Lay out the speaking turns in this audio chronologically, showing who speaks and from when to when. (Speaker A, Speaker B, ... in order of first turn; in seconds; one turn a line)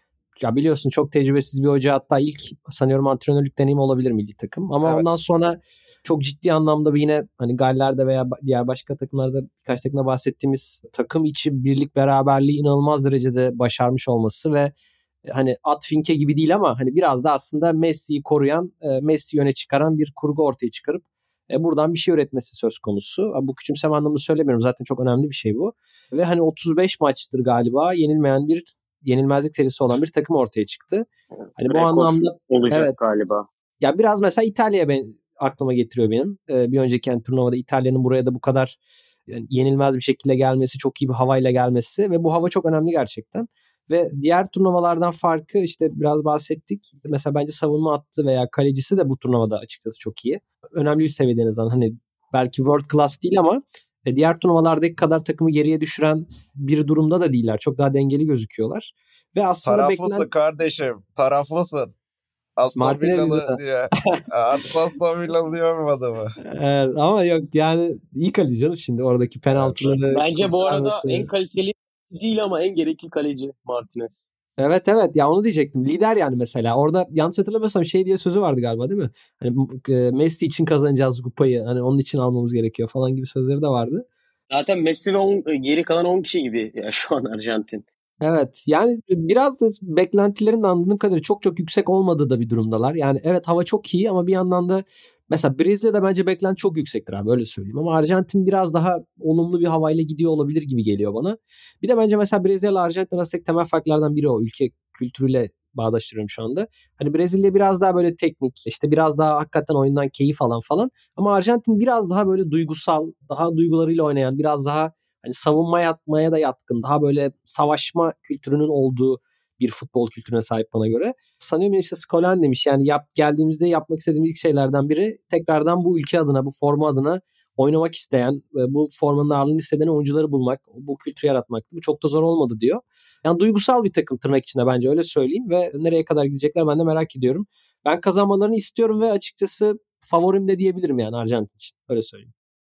Speaker A: 0.4-14.7
Speaker B: 4.8-5.2
Speaker A: 15.2-31.1
Speaker A: 31.6-32.9
Speaker C: 31.6-33.5
Speaker A: 33.8-38.8
Speaker A: 39.3-60.3
Speaker B: 59.6-61.9
Speaker B: 62.6-66.3
Speaker A: 62.8-64.2
Speaker A: 66.4-71.3
Speaker B: 69.5-70.0
Speaker C: 70.1-74.2
Speaker A: 74.6-84.0
Speaker C: 84.5-87.8
Speaker A: 88.2-142.3